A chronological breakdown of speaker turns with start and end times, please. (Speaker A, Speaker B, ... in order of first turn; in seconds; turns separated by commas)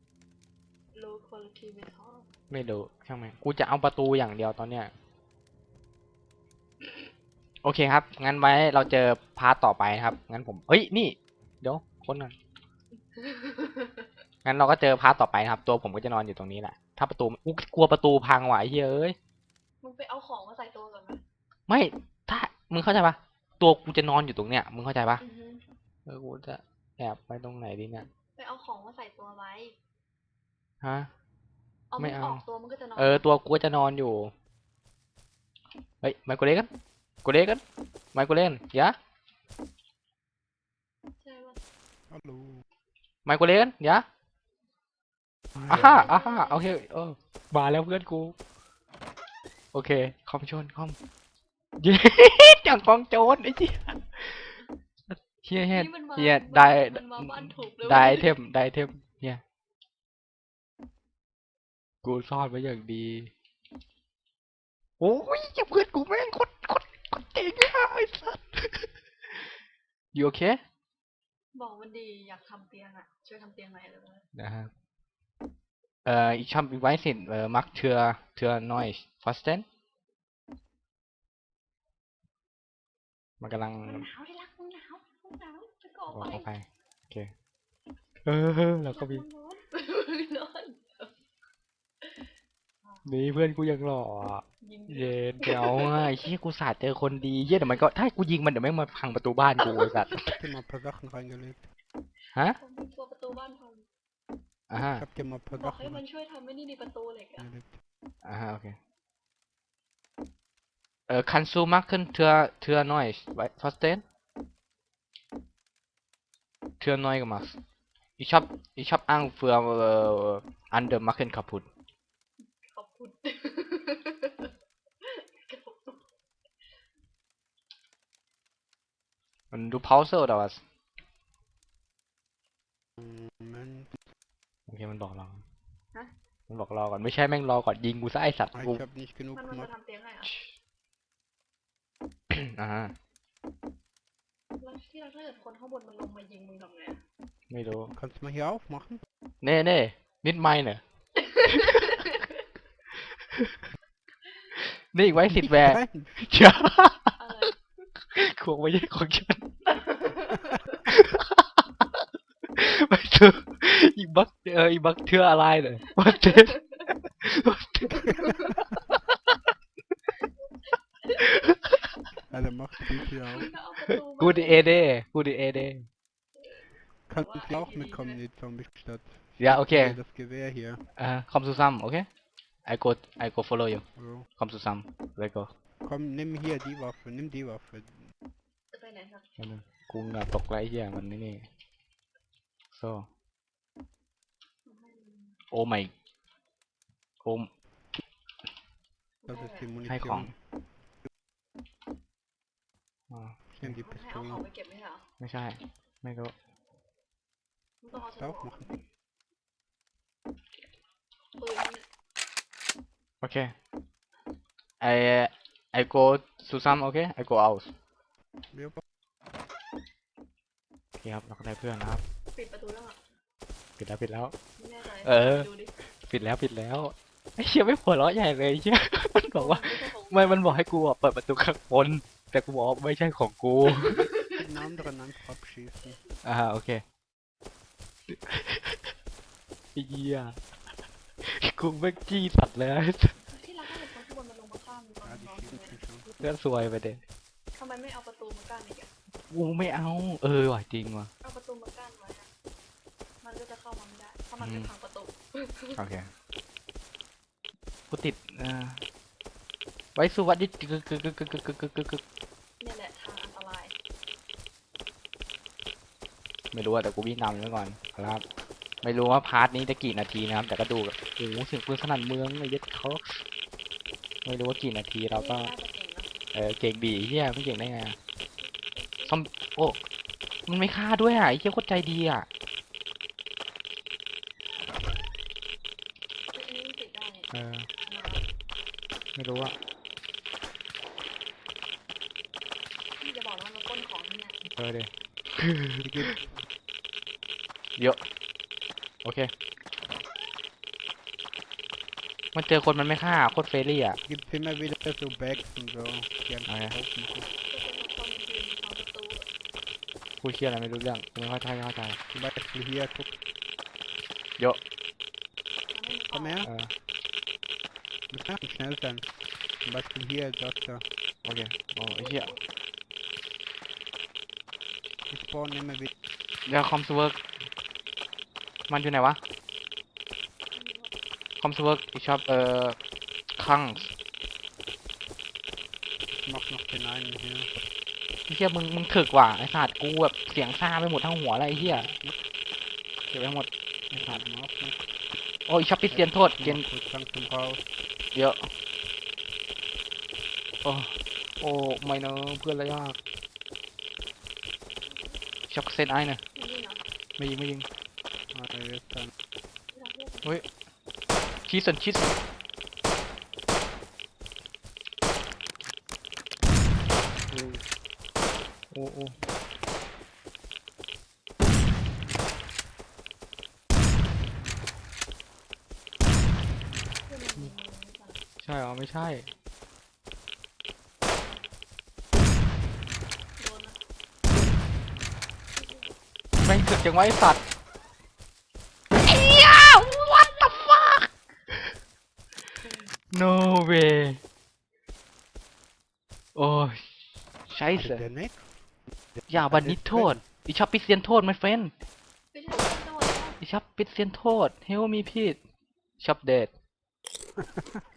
Speaker A: 0.9-2.3, Speaker B: 2.5-4.9, Speaker B: 7.6-12.3, Speaker A: 12.9-14.1, Speaker B: 14.4-19.2, Speaker A: 19.8-21.2, Speaker B: 21.7-25.2, Speaker A: 25.2-25.6, Speaker B: 26.1-28.1, Speaker A: 28.4-29.8, Speaker B: 30.8-31.1, Speaker A: 31.9-33.3, Speaker B: 32.0-32.4, Speaker B: 33.0-34.3, Speaker B: 36.0-36.7, Speaker B: 37.2-37.6, Speaker B: 38.1-39.0, Speaker A: 41.2-41.6, Speaker C: 42.1-42.6, Speaker B: 43.2-44.0, Speaker B: 45.7-48.3, Speaker A: 45.7-46.8, Speaker B: 49.7-51.0, Speaker B: 51.8-59.4, Speaker A: 55.6-58.3, Speaker B: 62.0-63.3, Speaker B: 65.0-69.6, Speaker B: 70.1-70.6, Speaker A: 71.5-74.2, Speaker B: 74.3-74.7, Speaker B: 76.0-79.7, Speaker B: 83.4-84.1, Speaker A: 83.8-86.5, Speaker B: 86.1-87.3, Speaker B: 88.2-89.2, Speaker A: 88.9-91.1, Speaker A: 92.8-93.1, Speaker B: 93.0-100.3, Speaker A: 94.6-96.3, Speaker A: 99.6-100.1, Speaker C: 100.2-101.7, Speaker B: 102.3-102.6, Speaker A: 102.6-103.9, Speaker B: 104.7-105.0, Speaker C: 104.9-106.0, Speaker A: 105.5-107.5, Speaker C: 107.4-107.7, Speaker B: 108.2-108.8, Speaker B: 111.1-114.0, Speaker B: 116.8-117.6, Speaker B: 118.2-121.7, Speaker A: 122.4-126.0, Speaker B: 129.5-130.6, Speaker C: 133.0-134.0, Speaker B: 134.7-135.4, Speaker B: 136.5-138.8, Speaker C: 138.5-139.7, Speaker A: 139.3-140.4, Speaker B: 142.3-142.9, Speaker A: 144.6-147.0, Speaker B: 147.5-147.9, Speaker C: 147.9-149.0, Speaker B: 149.4-150.8, Speaker A: 151.2-152.4, Speaker B: 151.4-152.0, Speaker B: 153.1-153.6, Speaker B: 154.5-159.8, Speaker C: 155.3-156.1, Speaker A: 157.2-157.5, Speaker A: 160.0-160.8, Speaker B: 160.8-161.9, Speaker B: 162.5-169.5, Speaker A: 166.0-166.9, Speaker A: 168.2-168.6, Speaker A: 171.0-171.6, Speaker B: 171.2-171.6, Speaker C: 172.3-173.5, Speaker A: 173.2-174.8, Speaker B: 173.9-175.9, Speaker C: 177.1-180.8, Speaker A: 177.1-178.2, Speaker B: 179.4-180.0, Speaker B: 180.9-182.1, Speaker B: 182.7-183.8, Speaker C: 183.9-184.3, Speaker B: 184.4-185.5, Speaker C: 185.8-188.1, Speaker A: 188.7-189.3, Speaker B: 189.4-191.5, Speaker B: 192.7-193.1, Speaker A: 194.6-195.4, Speaker B: 195.5-195.9, Speaker B: 197.2-197.5, Speaker A: 199.2-199.7, Speaker C: 199.3-200.3, Speaker B: 199.8-200.3, Speaker B: 203.1-203.8, Speaker C: 203.5-204.4, Speaker A: 203.8-205.1, Speaker B: 205.2-206.3, Speaker A: 207.8-208.8, Speaker C: 208.2-208.7, Speaker A: 211.4-211.8, Speaker B: 213.2-213.5, Speaker B: 214.8-217.7, Speaker C: 218.5-218.8, Speaker B: 221.0-222.0, Speaker A: 222.3-223.0, Speaker B: 223.8-224.3, Speaker A: 224.6-225.8, Speaker B: 225.0-234.1, Speaker A: 229.3-230.6, Speaker A: 233.7-234.7, Speaker C: 234.2-236.0, Speaker B: 236.2-236.8, Speaker B: 238.1-238.9, Speaker B: 239.7-240.4, Speaker B: 241.2-243.2, Speaker A: 243.2-245.8, Speaker C: 245.0-246.1, Speaker B: 246.2-247.0, Speaker A: 247.5-248.9, Speaker B: 249.3-251.1, Speaker A: 251.2-252.3, Speaker A: 253.2-255.8, Speaker B: 254.4-254.7, Speaker B: 255.8-256.1, Speaker B: 257.9-258.8, Speaker B: 259.9-262.0, Speaker A: 262.6-263.7, Speaker B: 266.5-268.2, Speaker B: 268.8-273.2, Speaker B: 274.2-275.5, Speaker A: 275.1-276.1, Speaker B: 276.3-278.0, Speaker A: 278.4-279.2, Speaker B: 279.1-279.8, Speaker B: 280.4-282.3, Speaker A: 286.3-288.3, Speaker B: 287.3-287.7, Speaker B: 289.1-289.5, Speaker A: 293.0-294.4, Speaker B: 294.6-296.2, Speaker C: 295.8-296.3, Speaker B: 299.0-299.3, Speaker B: 302.3-304.0, Speaker C: 304.1-307.3, Speaker B: 306.5-306.7, Speaker A: 307.4-309.3, Speaker B: 310.2-312.0, Speaker C: 312.1-313.2, Speaker A: 315.7-316.5, Speaker C: 316.1-316.5, Speaker B: 316.4-316.7, Speaker C: 318.1-319.1, Speaker C: 319.6-320.8, Speaker B: 321.2-322.3, Speaker A: 321.9-322.4, Speaker C: 325.1-325.9, Speaker B: 326.4-327.2, Speaker B: 328.7-329.2, Speaker A: 330.5-330.9, Speaker B: 331.4-332.8, Speaker B: 333.3-333.9, Speaker C: 336.1-337.5, Speaker B: 338.3-341.9, Speaker B: 343.1-344.2, Speaker C: 344.0-345.0, Speaker B: 345.5-346.6, Speaker C: 345.9-347.6, Speaker B: 348.1-348.5, Speaker B: 350.6-353.0, Speaker A: 354.9-355.1, Speaker B: 355.5-356.2, Speaker A: 356.3-356.8, Speaker B: 357.2-357.7, Speaker C: 358.3-359.1, Speaker A: 359.7-360.4, Speaker B: 361.5-362.2, Speaker B: 367.3-367.6, Speaker B: 368.7-369.1, Speaker A: 377.1-378.2, Speaker B: 378.4-379.3, Speaker A: 383.4-383.8, Speaker A: 385.6-385.9, Speaker B: 386.4-387.4, Speaker B: 389.0-391.7, Speaker A: 389.8-390.6, Speaker B: 393.1-394.2, Speaker B: 396.3-396.9, Speaker B: 397.5-398.1, Speaker C: 397.7-398.6, Speaker C: 399.2-400.2, Speaker B: 399.3-401.7, Speaker A: 402.3-403.4, Speaker B: 403.4-405.4, Speaker B: 406.0-406.5